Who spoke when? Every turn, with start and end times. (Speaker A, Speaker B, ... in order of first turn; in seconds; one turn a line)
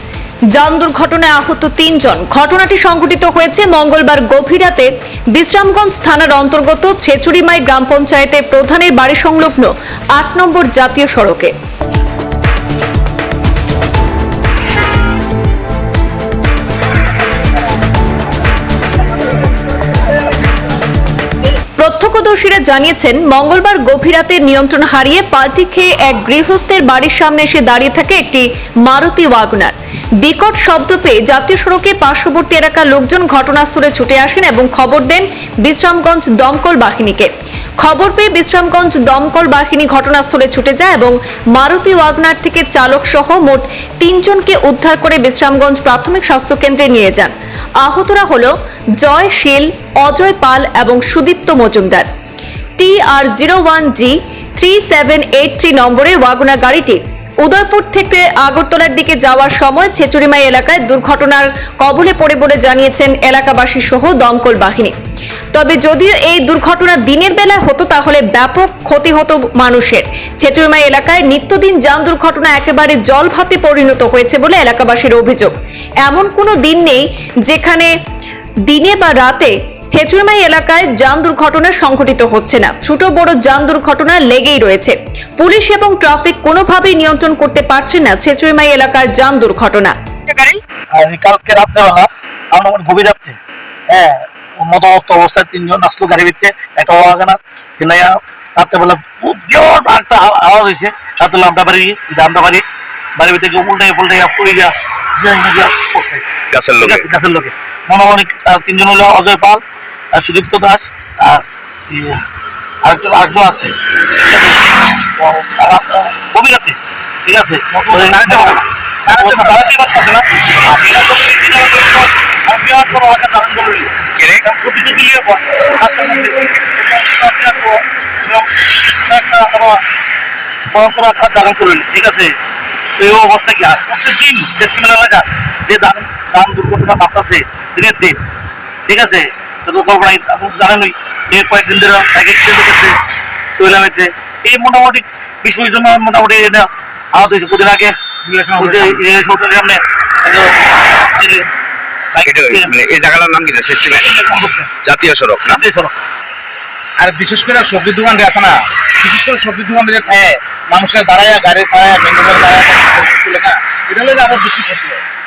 Speaker A: 0.5-11.5
Speaker A: 21.8-52.1
Speaker A: 52.8-64.9
Speaker A: 65.5-77.9
Speaker A: 78.7-90.0
Speaker B: 90.9-93.4
Speaker B: 93.9-102.6
Speaker B: 103.2-106.2
Speaker C: 106.5-107.1
Speaker B: 106.8-109.6
Speaker B: 110.1-112.2
Speaker B: 112.8-129.8
Speaker D: 117.9-119.7
Speaker C: 124.2-124.5
Speaker B: 130.7-132.3
Speaker B: 133.0-138.2
Speaker B: 138.9-143.0
Speaker B: 143.5-147.9
Speaker D: 148.2-149.0
Speaker B: 148.6-151.5
Speaker B: 152.1-152.8
Speaker C: 152.2-154.3
Speaker B: 153.9-154.8
Speaker C: 154.8-155.6
Speaker B: 155.5-155.9
Speaker D: 157.0-165.0